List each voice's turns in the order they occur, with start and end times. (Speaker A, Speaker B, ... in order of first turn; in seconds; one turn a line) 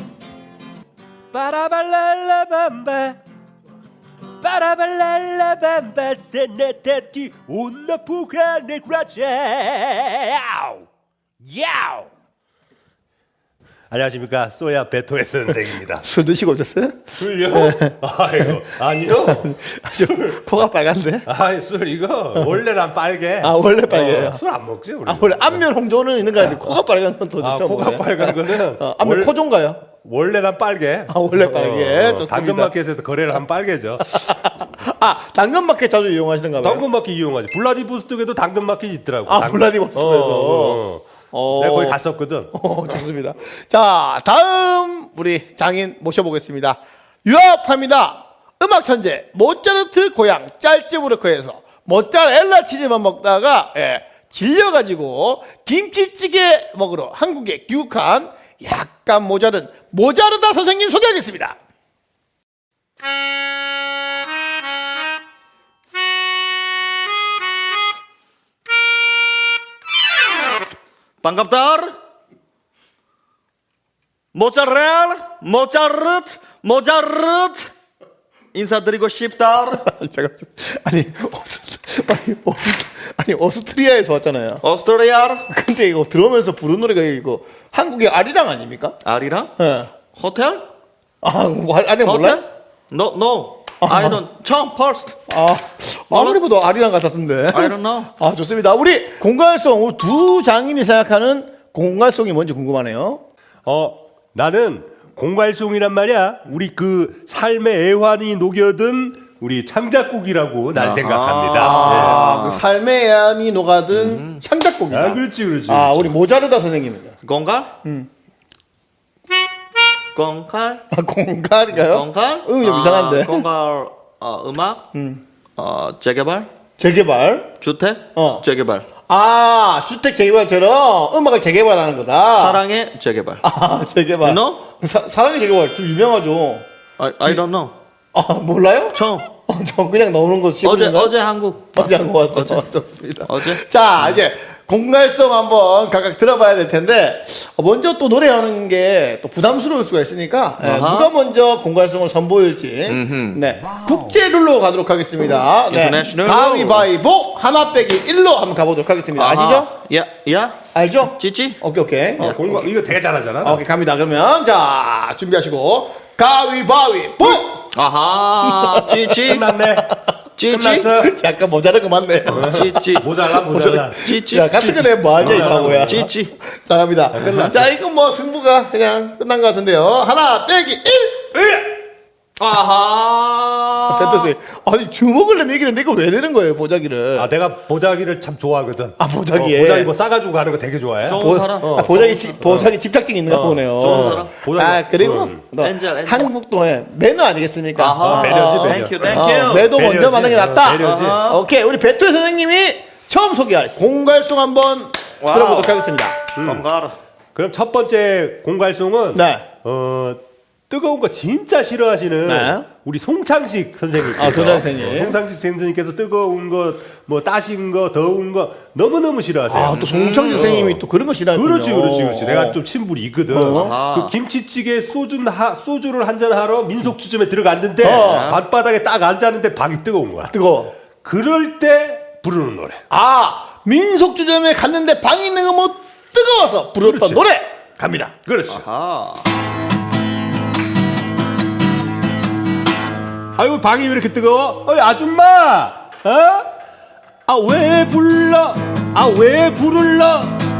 Speaker A: 1.3-3.2
Speaker A: 4.4-10.8
Speaker A: 11.4-12.1
Speaker A: 13.9-16.0
Speaker B: 16.0-18.6
Speaker A: 17.1-20.4
Speaker B: 19.2-21.3
Speaker A: 21.3-25.6
Speaker B: 23.4-24.4
Speaker B: 25.0-29.8
Speaker A: 26.4-26.8
Speaker A: 27.4-29.3
Speaker A: 30.0-34.3
Speaker B: 31.1-32.7
Speaker B: 34.0-36.9
Speaker A: 36.6-42.5
Speaker B: 39.2-42.0
Speaker B: 42.5-61.6
Speaker C: 71.2-71.9
Speaker C: 74.3-77.7
Speaker C: 78.5-79.8
Speaker B: 79.7-84.6
Speaker C: 84.6-85.5
Speaker B: 85.5-89.0
Speaker C: 89.0-89.5
Speaker B: 89.6-89.9
Speaker C: 90.1-90.7
Speaker B: 91.2-92.4
Speaker C: 92.0-95.2
Speaker B: 93.8-94.2
Speaker B: 95.3-103.2
Speaker C: 96.1-96.4
Speaker C: 97.5-98.1
Speaker A: 103.6-112.2
Speaker C: 110.7-112.6
Speaker B: 111.5-117.1
Speaker C: 113.9-114.4
Speaker A: 114.9-116.1
Speaker C: 117.2-117.7
Speaker C: 120.1-120.8
Speaker B: 120.9-123.5
Speaker C: 121.7-124.8
Speaker B: 124.9-125.2
Speaker C: 125.6-126.5
Speaker B: 126.8-127.5
Speaker C: 127.6-128.9
Speaker B: 128.2-128.4
Speaker B: 129.1-132.6
Speaker C: 132.3-133.4
Speaker B: 133.4-136.7
Speaker C: 134.2-134.6
Speaker C: 137.0-137.7
Speaker B: 138.1-141.1
Speaker C: 138.9-139.3
Speaker C: 140.6-142.6
Speaker B: 141.7-159.7
Speaker C: 143.2-144.2
Speaker C: 150.6-151.1
Speaker C: 152.9-153.4
Speaker C: 155.7-156.9
Speaker C: 159.1-161.6
Speaker B: 160.7-162.6
Speaker A: 162.2-163.6
Speaker B: 163.4-167.7
Speaker C: 167.7-169.5
Speaker B: 168.4-169.2
Speaker A: 169.2-169.9
Speaker B: 169.7-170.0
Speaker C: 170.3-170.9
Speaker A: 170.5-171.1
Speaker B: 170.9-181.5
Speaker A: 172.3-174.1
Speaker C: 172.4-173.1
Speaker C: 173.9-176.3
Speaker A: 175.2-176.1
Speaker A: 177.1-177.7
Speaker C: 182.4-184.3
Speaker B: 183.9-187.3
Speaker A: 187.1-192.7
Speaker B: 189.0-189.9
Speaker C: 191.0-192.6
Speaker B: 191.2-206.2
Speaker A: 193.3-195.4
Speaker C: 193.8-194.3
Speaker C: 195.6-196.3
Speaker C: 197.7-199.7
Speaker A: 198.0-201.2
Speaker C: 200.8-201.4
Speaker C: 205.2-205.8
Speaker A: 206.3-206.6
Speaker C: 206.4-207.0
Speaker A: 207.3-220.8
Speaker B: 209.1-209.4
Speaker B: 212.2-212.7
Speaker B: 214.1-215.2
Speaker B: 219.5-222.6
Speaker C: 219.7-220.5
Speaker A: 221.3-230.3
Speaker B: 223.3-223.7
Speaker C: 223.5-224.1
Speaker B: 227.8-228.3
Speaker C: 227.9-228.4
Speaker B: 230.3-230.7
Speaker A: 231.0-232.8
Speaker B: 232.9-238.1
Speaker A: 236.8-237.2
Speaker A: 238.2-238.6
Speaker C: 238.5-239.3
Speaker A: 243.4-246.5
Speaker A: 247.3-250.4